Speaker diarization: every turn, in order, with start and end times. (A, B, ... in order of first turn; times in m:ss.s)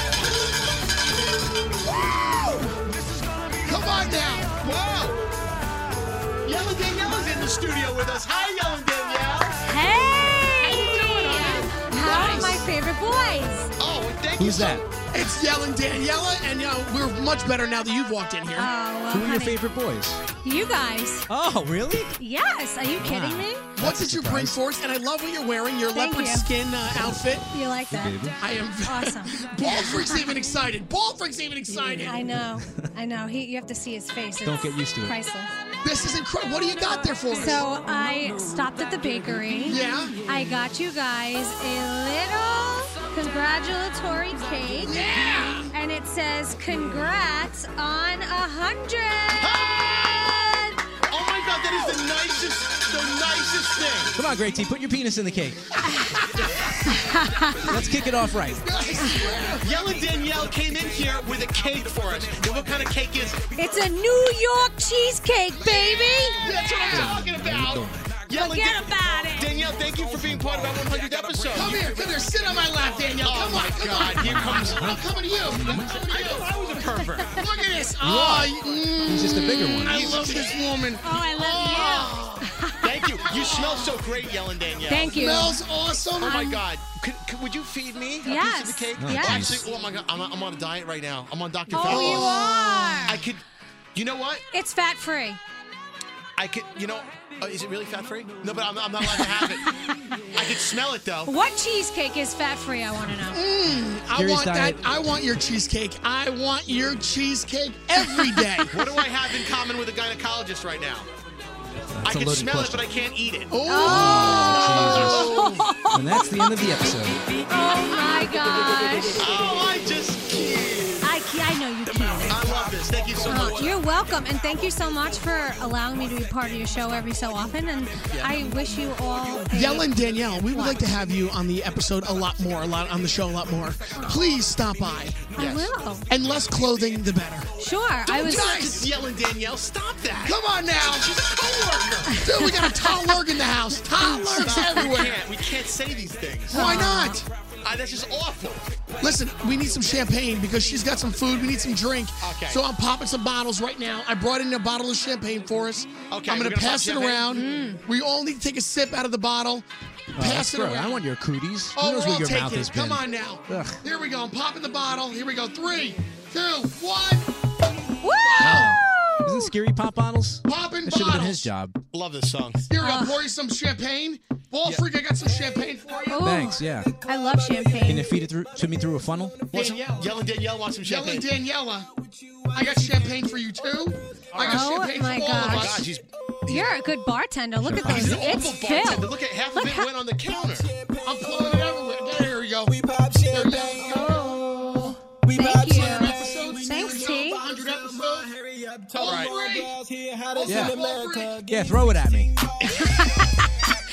0:01.8-0:04.3 A
0:03.6-0:04.5 B
0:04.6-0:05.2 C
0:06.4-0:09.6 C
0:09.6-0:13.7 D
0:10.6-0:11.5 C
0:10.7-0:12.7 B
0:13.8-0:14.8 C
0:14.4-0:14.8 E
0:15.1-0:18.7 B
0:18.6-0:19.6 D
0:19.1-0:20.2 E
0:20.4-0:21.3 D
0:21.3-0:22.1 E
0:22.2-0:23.7 D
0:23.0-0:24.6 E
0:23.8-0:27.4 B
0:25.9-0:26.5 D
0:27.5-0:30.4 D
0:27.9-0:28.4 E
0:28.4-0:32.3 B
0:32.0-0:35.5 D
0:32.6-0:32.8 E
0:34.4-0:35.1 E
0:35.8-0:37.6 B
0:37.3-0:45.2 D
0:39.6-0:40.1 B
0:44.8-0:45.7 B
0:45.7-0:49.6 D
0:49.4-0:50.5 C
0:51.0-0:54.1 C
0:54.1-0:55.6 E
0:55.8-0:56.2 D
0:56.1-0:56.7 B
0:56.7-0:57.6 A
0:56.9-0:57.8 D
0:57.6-0:58.7 E
0:58.6-0:59.7 B
0:59.0-0:59.3 D
0:59.5-1:03.9 A
0:59.6-1:03.4 C
1:03.5-1:06.4 D
1:05.9-1:06.6 A
1:06.2-1:07.2 B
1:06.4-1:11.9 C
1:06.9-1:08.1 E
1:08.3-1:09.6 D
1:09.4-1:13.5 A
1:11.5-1:16.5 B
1:13.2-1:14.9 C
1:14.8-1:16.0 E
1:15.9-1:17.4 C
1:17.4-1:22.5 B
1:18.0-1:20.1 E
1:19.9-1:20.5 C
1:21.0-1:22.9 D
1:21.4-1:22.0 C
1:22.8-1:25.3 C
1:23.2-1:24.0 B
1:24.9-1:25.6 D
1:25.1-1:26.6 B
1:26.2-1:32.4 C
1:28.2-1:29.5 D
1:29.0-1:29.7 E
1:31.7-1:33.2 D
1:31.7-1:33.2 B
1:33.1-1:33.4 C
1:33.9-1:34.4 C
1:34.5-1:35.4 D
1:36.4-1:39.7 C
1:40.3-1:41.3 C
1:41.3-1:43.4 D
1:43.3-1:48.8 B
1:44.1-1:44.8 E
1:48.0-1:48.5 D
1:48.7-1:51.1 C
1:52.0-1:52.8 E
1:52.0-1:53.5 C
1:53.5-1:55.6 B
1:53.7-1:56.6 D
1:53.8-1:55.4 E
1:55.9-1:57.2 E
1:57.1-1:59.9 A
1:57.5-1:59.2 D
1:59.2-2:01.1 C
2:01.0-2:02.4 D
2:01.9-2:03.8 C
2:02.1-2:03.5 A
2:03.2-2:10.9 D
2:08.1-2:08.5 C
2:09.5-2:15.2 B
2:13.9-2:14.3 D
2:15.2-2:15.7 C
2:15.3-2:16.0 D
2:16.1-2:17.5 B
2:17.6-2:18.8 D
2:18.1-2:18.8 B
2:18.2-2:22.2 C
2:20.2-2:21.1 B
2:22.1-2:25.1 D
2:22.2-2:25.2 B
2:24.4-2:26.9 C
2:26.5-2:27.2 D
2:26.5-2:27.3 B
2:27.6-2:28.7 C
2:29.0-2:39.6 B
2:32.2-2:32.6 C
2:36.1-2:37.3 C
2:37.3-2:37.8 D
2:40.2-2:43.8 E
2:40.2-2:41.0 B
2:41.8-2:47.3 B
2:48.0-2:49.5 D
2:48.2-2:48.7 B
2:48.4-2:51.8 E
2:50.4-2:51.5 B
2:51.9-2:52.7 C
2:52.7-2:56.2 B
2:52.8-2:53.2 D
2:55.3-3:00.3 A
2:56.1-2:58.1 D
2:56.2-2:56.9 E
2:57.8-2:59.3 E
2:59.5-3:01.3 C
2:59.5-3:00.1 B
3:00.8-3:01.9 B
3:01.9-3:04.3 A
3:02.5-3:05.8 B
3:04.3-3:04.6 C
3:04.5-3:05.8 D
3:05.4-3:06.7 C
3:06.5-3:09.9 D
3:07.6-3:08.2 E
3:07.7-3:10.7 C
3:10.3-3:23.4 A
3:11.0-3:12.8 B
3:13.3-3:14.9 B
3:13.9-3:17.4 D
3:15.6-3:18.3 B
3:18.9-3:19.8 B
3:19.0-3:19.3 C
3:20.3-3:21.4 B
3:20.5-3:20.8 E
3:21.4-3:22.3 E
3:22.7-3:23.3 D